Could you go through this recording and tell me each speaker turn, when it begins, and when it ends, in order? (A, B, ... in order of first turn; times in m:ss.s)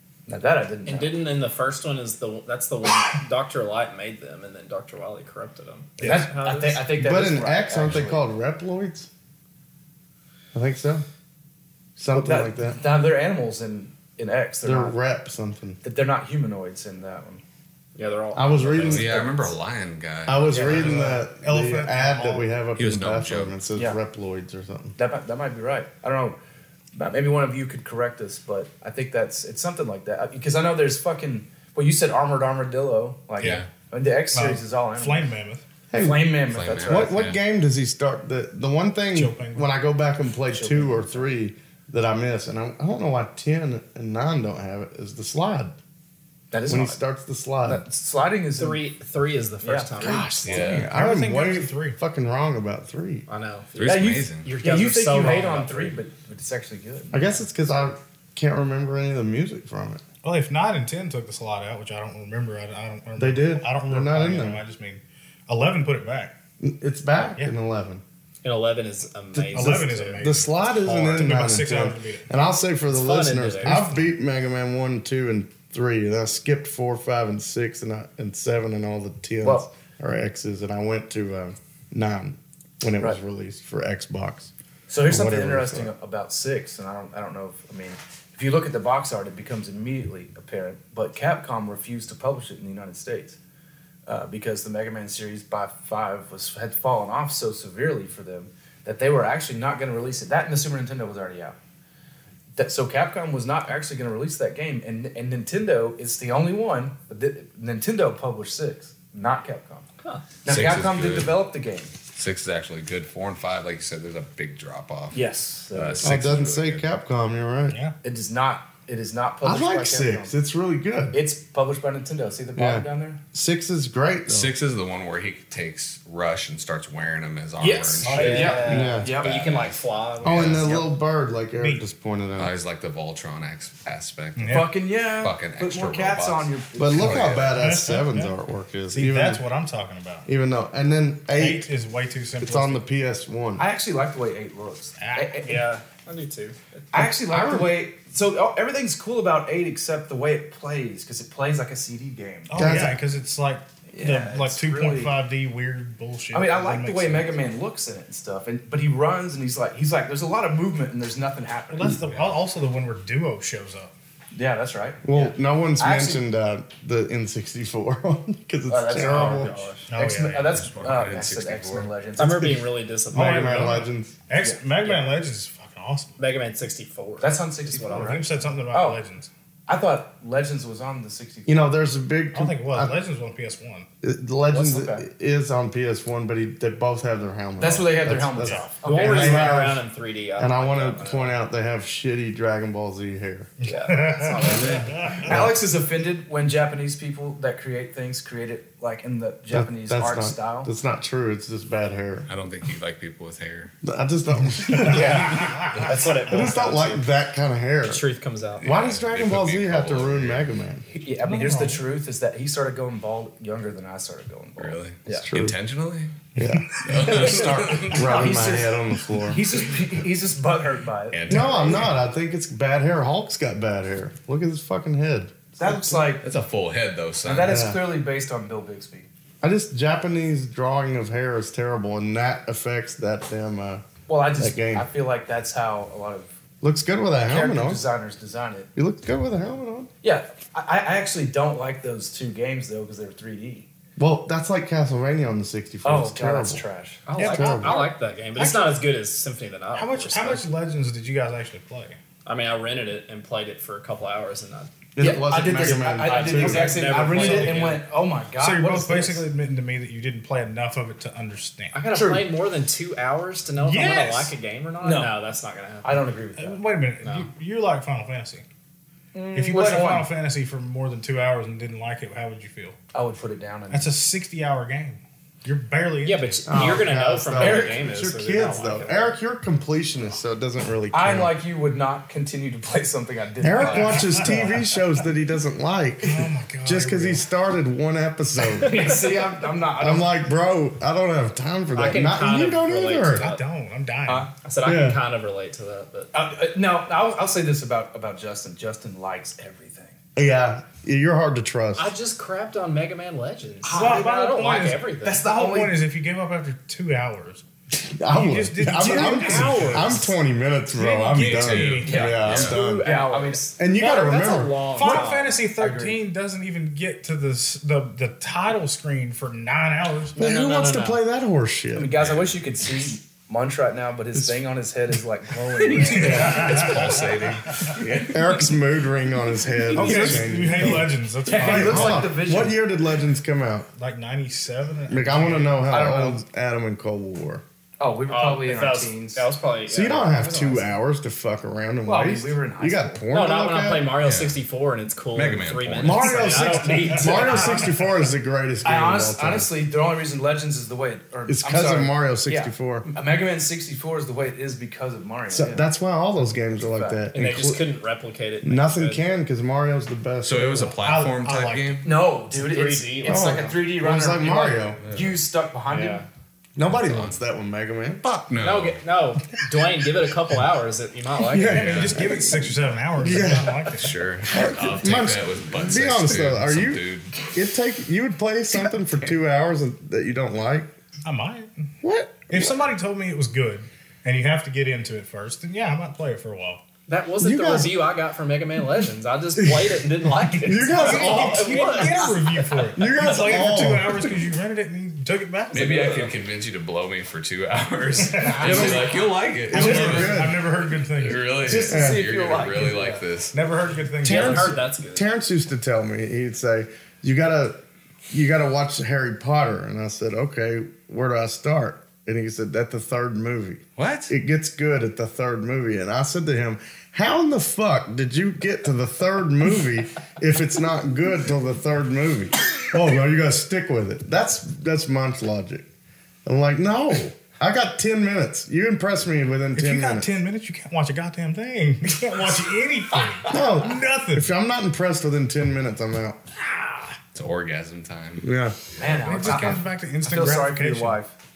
0:00.3-0:01.1 A
0:00.8-0:06.8 B
0:06.0-0:06.3 C
0:06.0-0:08.3 A
0:06.9-0:09.1 D
0:10.5-0:11.0 D
0:12.0-0:12.8 D
0:12.1-0:15.0 A
0:14.6-0:15.8 D
0:15.8-0:17.4 A
0:18.0-0:19.2 B
0:18.3-0:19.3 D
0:18.8-0:20.6 E
0:19.2-0:19.5 A
0:20.2-0:25.0 D
0:20.5-0:20.9 B
0:20.6-0:22.5 C
0:22.8-0:23.6 E
0:25.0-0:26.4 A
0:26.9-0:35.3 A
0:33.4-0:33.7 E
0:33.4-0:33.6 C
0:34.3-0:35.6 C
0:35.9-0:45.7 D
0:35.9-0:37.2 A
0:36.5-0:37.4 E
0:39.1-0:39.7 C
0:40.5-0:41.3 A
0:46.5-0:47.0 A
0:46.7-0:47.8 D
0:47.6-0:48.8 A
0:48.6-0:50.3 B
0:49.6-0:50.7 A
0:50.0-0:53.2 D
0:50.4-0:50.9 E
0:50.5-0:52.0 C
0:53.3-0:56.0 B
0:53.8-0:54.5 E
0:53.8-0:57.4 A
0:57.1-1:00.0 D
1:00.2-1:06.3 C
1:03.2-1:04.6 D
1:06.6-1:08.0 D
1:08.4-1:10.2 B
1:09.3-1:24.5 D
1:09.5-1:12.3 C
1:12.9-1:13.9 B
1:13.6-1:14.0 C
1:24.9-1:33.4 A
1:25.0-1:25.9 D
1:34.0-1:41.6 A
1:42.6-1:49.9 A
1:50.4-1:51.9 A
1:50.4-1:51.4 E
1:52.1-1:56.8 E
1:55.1-1:56.2 A
1:56.0-1:57.8 D
1:57.7-1:58.0 C
1:58.0-2:00.3 A
1:59.4-2:01.2 D
2:01.1-2:03.2 A
2:02.5-2:04.5 D
2:04.3-2:10.8 E
2:07.6-2:09.4 A
2:08.0-2:10.9 B
2:08.1-2:08.6 C
2:08.5-2:09.2 D
2:10.2-2:12.5 D
2:11.6-2:11.8 C
2:12.4-2:17.6 E
2:14.4-2:14.7 C
2:14.5-2:17.5 A
2:16.8-2:19.4 D
2:17.4-2:18.4 C
2:18.9-2:20.3 C
2:20.2-2:21.7 D
2:21.3-2:22.8 C
2:22.4-2:23.6 D
2:23.6-2:25.6 A
2:25.0-2:25.4 C
2:25.4-2:26.9 B
2:26.9-2:32.8 A
2:27.0-2:27.8 D
2:32.5-2:37.4 C
2:32.5-2:33.0 D
2:33.9-2:35.2 A
2:36.3-2:42.0 A
2:41.7-2:43.9 C
2:42.1-2:42.4 E
2:44.3-2:46.2 A
2:45.0-2:49.6 D
2:48.7-2:52.6 A
2:49.0-2:49.8 B
2:49.9-2:50.6 C
2:50.3-2:51.9 E
2:52.2-2:53.9 B
2:53.1-2:54.2 D
2:53.2-2:56.2 C
2:54.8-2:55.1 B
2:56.2-2:58.2 B
2:57.2-2:59.0 A
2:57.9-2:59.3 C
2:59.7-3:01.7 A
3:01.4-3:03.0 D
3:02.3-3:03.9 C
3:04.0-3:09.8 D
3:04.5-3:05.0 A
3:07.6-3:09.6 A
3:08.4-3:08.7 C
3:08.8-3:11.4 B
3:10.4-3:13.5 D
3:13.6-3:14.4 C
3:13.6-3:15.2 B
3:14.4-3:14.9 E
3:14.9-3:15.3 C
3:15.1-3:20.7 A
3:15.2-3:15.6 D
3:19.5-3:22.3 D
3:22.3-3:23.7 E
3:23.8-3:25.3 D
3:24.8-3:27.1 B
3:24.8-3:25.9 C
3:24.9-3:25.3 A
3:25.9-3:26.6 A
3:26.3-3:28.0 D
3:27.8-3:28.8 B
3:28.6-3:30.5 E
3:28.6-3:30.8 D
3:30.9-3:35.3 A
3:31.2-3:31.8 C
3:34.6-3:36.2 E
3:35.3-3:35.5 D
3:36.3-3:39.4 D
3:36.6-3:36.8 C
3:36.8-3:38.3 E
3:37.0-3:41.9 A
3:41.1-3:42.0 E
3:41.3-3:46.1 D
3:45.6-3:46.2 A
3:46.2-3:47.6 E
3:47.2-3:49.1 A
3:47.4-3:47.8 D
3:49.4-3:54.9 D
3:54.1-3:56.3 A
3:56.6-3:57.8 D
3:57.2-3:58.7 A
3:58.7-3:59.9 D
4:00.0-4:03.7 A
4:04.0-4:06.6 D
4:05.8-4:07.1 A
4:07.0-4:10.4 B
4:07.2-4:08.8 C
4:07.2-4:07.8 D
4:09.7-4:12.0 C
4:12.2-4:14.7 B
4:14.9-4:17.4 D
4:15.0-4:19.2 A
4:15.6-4:17.8 B
4:16.6-4:17.7 C
4:18.3-4:21.8 C
4:21.7-4:26.1 B
4:21.9-4:22.3 A
4:23.6-4:24.3 C
4:24.8-4:25.1 A
4:25.8-4:26.6 A
4:26.3-4:28.4 C
4:27.0-4:27.3 B
4:29.1-4:30.1 A
4:29.3-4:32.8 C
4:32.9-4:34.0 A
4:33.7-4:36.6 C
4:36.0-4:39.1 B
4:36.5-4:41.3 D
4:37.3-4:37.8 A
4:40.9-4:44.7 A
4:43.4-4:49.0 D
4:43.6-4:43.9 B
4:43.7-4:44.5 C
4:46.0-4:47.2 C
4:48.6-4:50.2 A
4:48.6-4:49.0 B
4:49.8-4:53.3 D
4:51.7-4:53.4 B
4:53.1-4:54.3 C
4:54.4-4:56.1 B
4:54.6-4:55.0 D
4:56.1-5:00.0 A
5:00.2-5:01.9 D
5:01.8-5:05.2 B
5:03.6-5:05.8 A
5:03.7-5:07.4 C
5:07.8-5:12.9 D
5:08.1-5:10.1 C
5:08.8-5:10.0 A
5:10.7-5:12.2 C
5:11.2-5:12.6 E
5:11.9-5:13.5 A
5:12.4-5:15.4 B
5:13.6-5:14.6 D
5:14.7-5:20.2 C
5:14.8-5:16.0 A
5:20.2-5:21.0 B
5:20.2-5:22.0 D
5:21.7-5:27.2 A
5:22.0-5:22.4 E
5:25.6-5:27.8 C
5:25.9-5:28.2 E
5:26.0-5:26.4 D
5:27.8-5:33.7 D
5:29.8-5:32.1 C
5:29.8-5:30.7 A
5:31.2-5:32.6 A
5:33.8-5:35.7 C
5:34.9-5:37.4 D
5:35.7-5:36.2 A
5:37.8-5:39.2 A
5:38.1-5:40.7 B
5:39.7-5:43.9 D
5:41.8-5:43.0 A
5:43.1-5:47.7 B
5:44.0-5:44.4 E
5:45.1-5:46.1 E
5:45.8-5:49.5 D
5:46.1-5:47.6 A
5:46.7-5:47.2 C
5:48.6-5:55.6 A
5:51.3-5:52.8 D
5:55.3-5:57.6 D
5:56.7-5:57.0 A
5:57.1-5:59.0 B
5:58.4-6:00.8 D
6:00.2-6:01.8 E
6:00.8-6:01.8 C
6:01.8-6:06.0 A
6:02.3-6:03.5 B
6:03.0-6:04.8 D
6:04.8-6:05.1 E
6:05.7-6:06.0 B
6:06.6-6:08.1 D
6:06.6-6:07.2 E
6:08.0-6:08.8 E
6:08.4-6:12.0 B
6:11.3-6:13.6 D
6:11.5-6:14.0 C
6:11.6-6:12.0 E
6:13.7-6:17.3 E
6:14.3-6:20.7 D
6:21.0-6:21.7 C
6:21.8-6:22.6 D
6:22.3-6:26.6 C
6:26.9-6:32.7 B
6:27.2-6:27.8 D
6:29.4-6:31.9 D
6:30.7-6:36.1 C
6:32.8-6:34.1 D
6:35.5-6:43.4 E
6:38.0-6:38.7 C
6:38.4-6:38.9 A
6:38.4-6:38.9 D
6:39.5-6:40.4 D
6:39.5-6:41.4 C
6:39.5-6:40.1 A
6:41.4-6:43.0 A
6:41.7-6:42.0 D
6:43.3-6:44.6 C
6:44.0-6:45.0 B
6:44.0-7:05.7 D
6:53.8-6:54.1 E
7:06.2-7:10.1 D
7:09.5-7:14.3 C
7:12.0-7:12.5 A
7:13.3-7:16.2 D
7:17.1-7:19.6 E
7:18.2-7:18.6 D
7:18.8-7:21.1 A
7:19.0-7:21.0 C